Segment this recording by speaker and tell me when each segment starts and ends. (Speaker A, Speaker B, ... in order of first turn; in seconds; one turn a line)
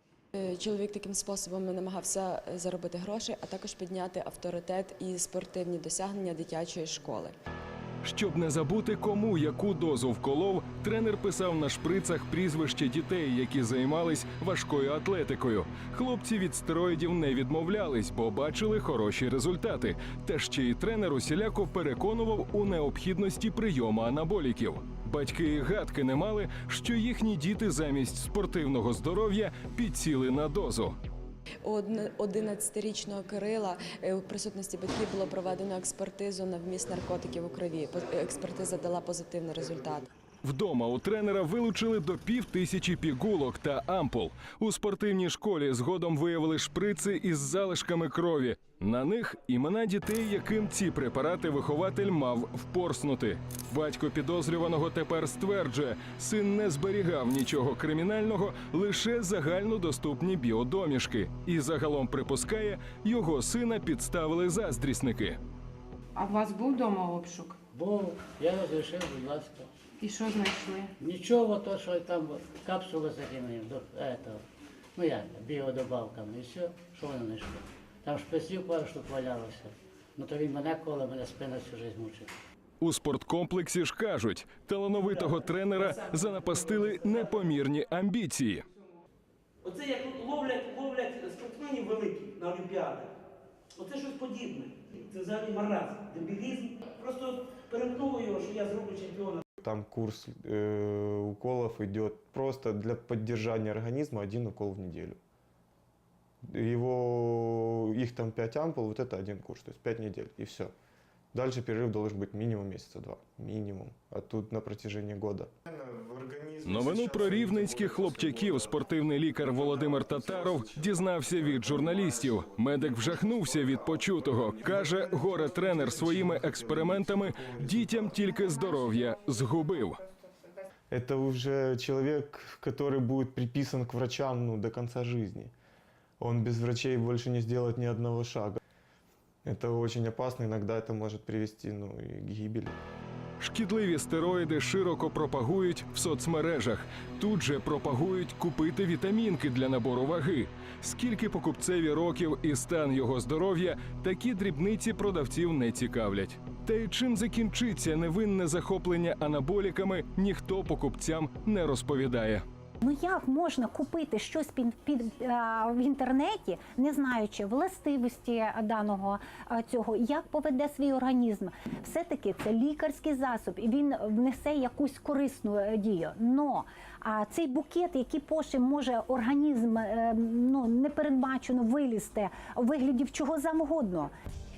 Speaker A: 0.3-7.3
Speaker B: 8.0-30.9
Speaker A: 31.6-40.1
Speaker B: 40.4-65.4
Speaker C: 66.2-67.6
Speaker D: 67.7-69.7
Speaker C: 70.0-70.9
Speaker D: 71.0-74.4
Speaker D: 75.0-82.3
Speaker B: 82.8-88.6
Speaker E: 85.0-85.3
Speaker E: 89.6-93.1
Speaker E: 93.8-99.4
Speaker F: 99.6-105.2
Speaker F: 106.5-110.7
Speaker F: 111.3-128.3
Speaker B: 116.6-130.0
Speaker F: 130.9-135.5
Speaker F: 136.2-138.6
Speaker F: 139.4-142.8
Speaker B: 143.4-162.4
Speaker G: 162.9-184.1